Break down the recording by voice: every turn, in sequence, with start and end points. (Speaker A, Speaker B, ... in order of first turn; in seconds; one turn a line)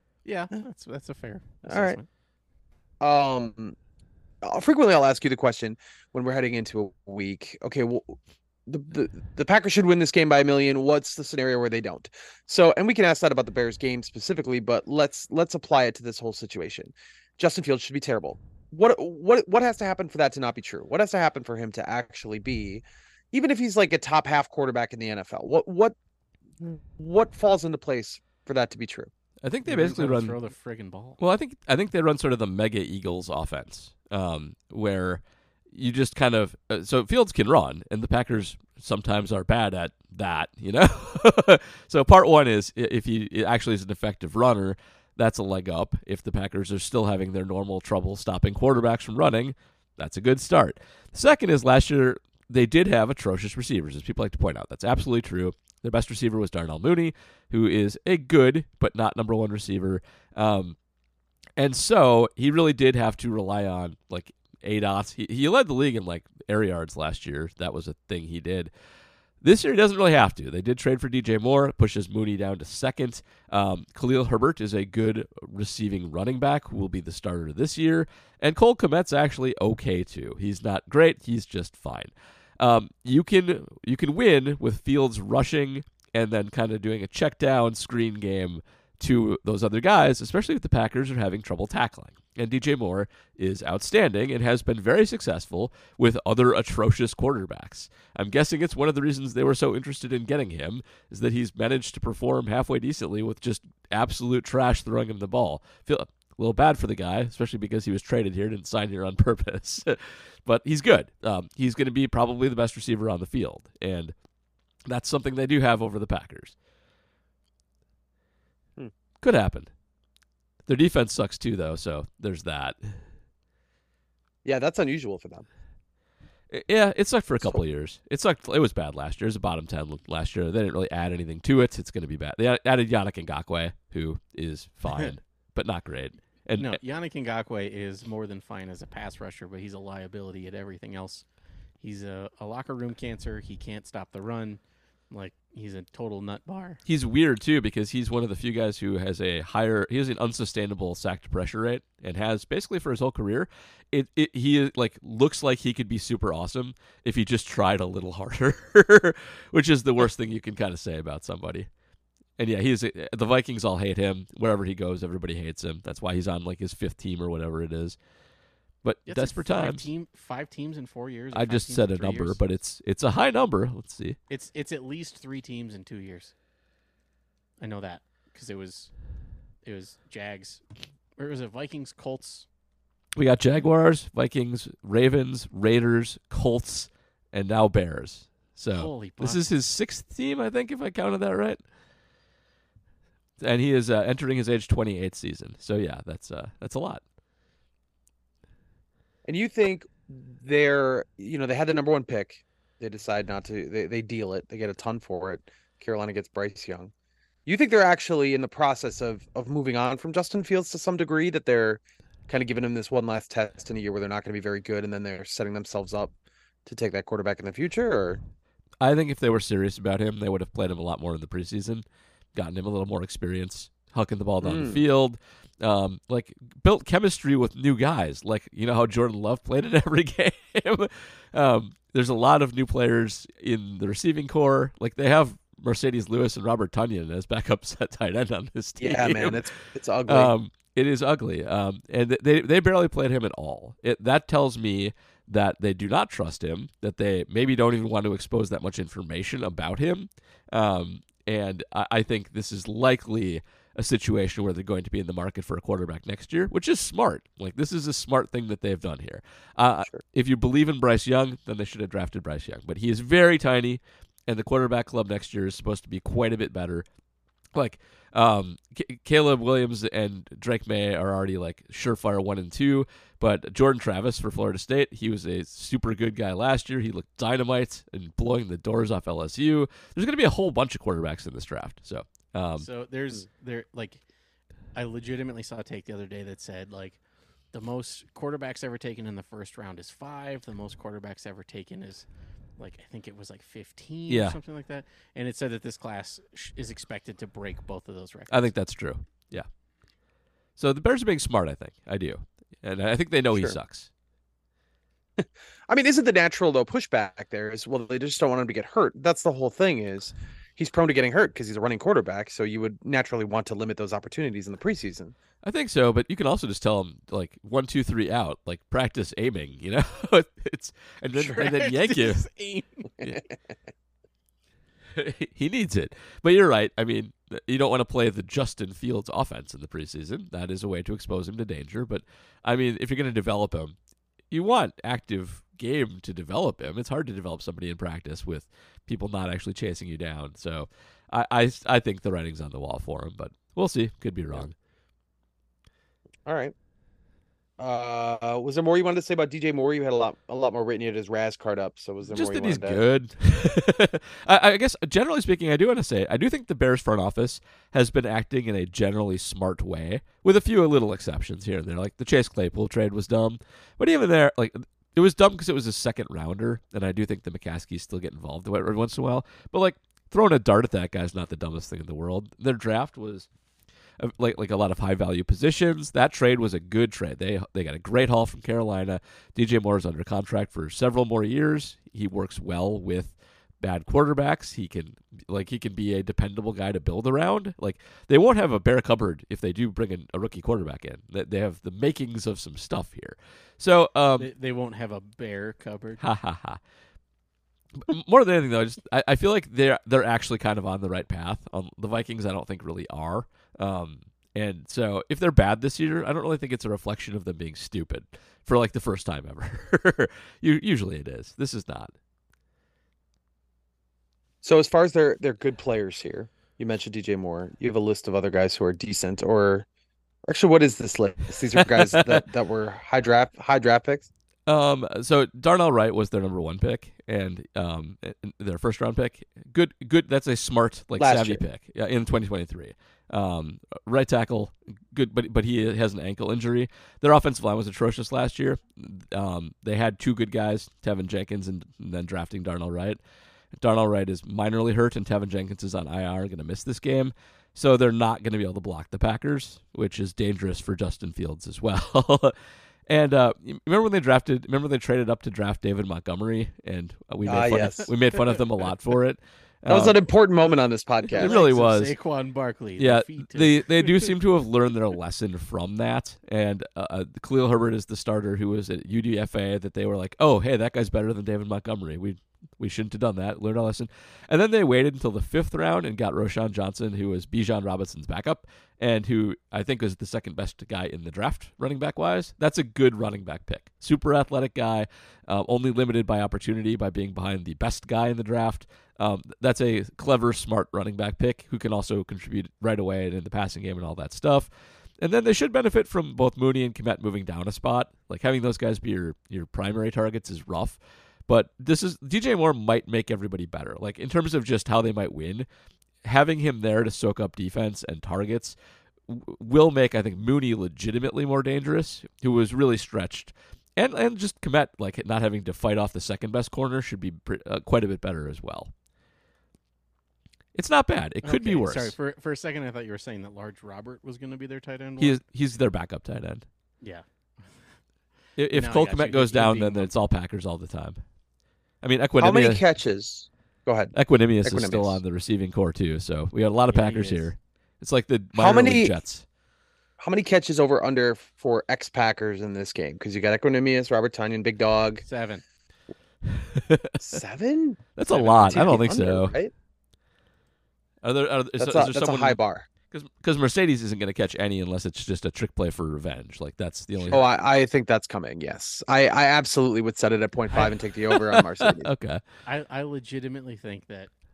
Speaker A: 0.2-2.1
Speaker B: 1.6-2.0
Speaker B: 3.0-3.8
Speaker B: 4.4-25.9
Speaker B: 26.6-29.1
Speaker C: 29.4-30.4
Speaker A: 29.6-31.2
Speaker C: 31.2-60.8
Speaker C: 61.6-68.7
Speaker C: 69.4-114.1
Speaker C: 114.9-116.5
Speaker C: 119.2-119.7
Speaker C: 120.7-123.0
Speaker B: 124.4-125.5
Speaker C: 126.5-136.8
Speaker A: 136.6-141.2
Speaker A: 141.8-146.8
Speaker C: 146.8-161.7
Speaker C: 162.4-168.0
Speaker C: 168.8-169.9
Speaker A: 169.1-172.4
Speaker C: 171.3-174.2
Speaker A: 174.3-176.3
Speaker A: 177.6-178.9
Speaker A: 179.6-180.6
Speaker A: 181.2-182.5
Speaker C: 183.2-191.6
Speaker A: 188.7-189.5
Speaker C: 193.4-197.0
Speaker B: 199.2-206.9
Speaker B: 207.5-216.1
Speaker B: 216.6-218.2
Speaker C: 218.8-239.4
Speaker B: 224.4-224.8
Speaker B: 238.8-240.3
Speaker C: 240.1-266.9
Speaker C: 267.5-282.7
Speaker A: 282.6-284.0
Speaker A: 284.7-287.0
Speaker A: 287.5-292.1
Speaker A: 292.6-298.5
Speaker C: 294.1-294.4
Speaker C: 298.3-299.5
Speaker C: 300.6-303.9
Speaker B: 305.2-315.1
Speaker C: 315.4-322.3
Speaker A: 321.3-322.9
Speaker B: 323.0-323.2
Speaker C: 324.9-333.8
Speaker C: 334.3-344.5
Speaker B: 346.2-346.5
Speaker B: 347.6-352.8
Speaker C: 352.1-373.3
Speaker C: 374.0-394.3
Speaker A: 394.2-396.0
Speaker C: 396.0-396.6
Speaker C: 397.8-411.9
Speaker B: 414.4-419.7
Speaker B: 420.2-424.1
Speaker C: 421.6-422.2
Speaker C: 424.5-443.0
Speaker B: 431.0-431.4
Speaker C: 443.5-452.3
Speaker C: 452.9-460.0
Speaker B: 457.2-457.9
Speaker A: 457.8-458.4
Speaker B: 459.7-461.4
Speaker C: 461.2-461.9
Speaker A: 461.2-464.2
Speaker C: 462.8-505.5
Speaker C: 506.0-508.6
Speaker C: 509.1-518.7
Speaker C: 520.5-521.9
Speaker A: 521.2-525.2
Speaker C: 525.0-526.5
Speaker A: 526.8-527.8
Speaker C: 528.4-531.0
Speaker A: 528.5-529.9
Speaker C: 531.8-532.6
Speaker B: 532.2-535.0
Speaker C: 533.9-539.2
Speaker A: 536.7-537.3
Speaker B: 538.3-538.9
Speaker B: 540.0-545.0
Speaker A: 545.0-545.4
Speaker C: 546.2-547.1
Speaker B: 547.0-549.5
Speaker C: 548.0-549.4
Speaker C: 551.0-552.4
Speaker B: 551.6-552.7
Speaker C: 552.9-557.2
Speaker B: 557.0-561.9
Speaker C: 561.6-562.2
Speaker A: 562.5-564.1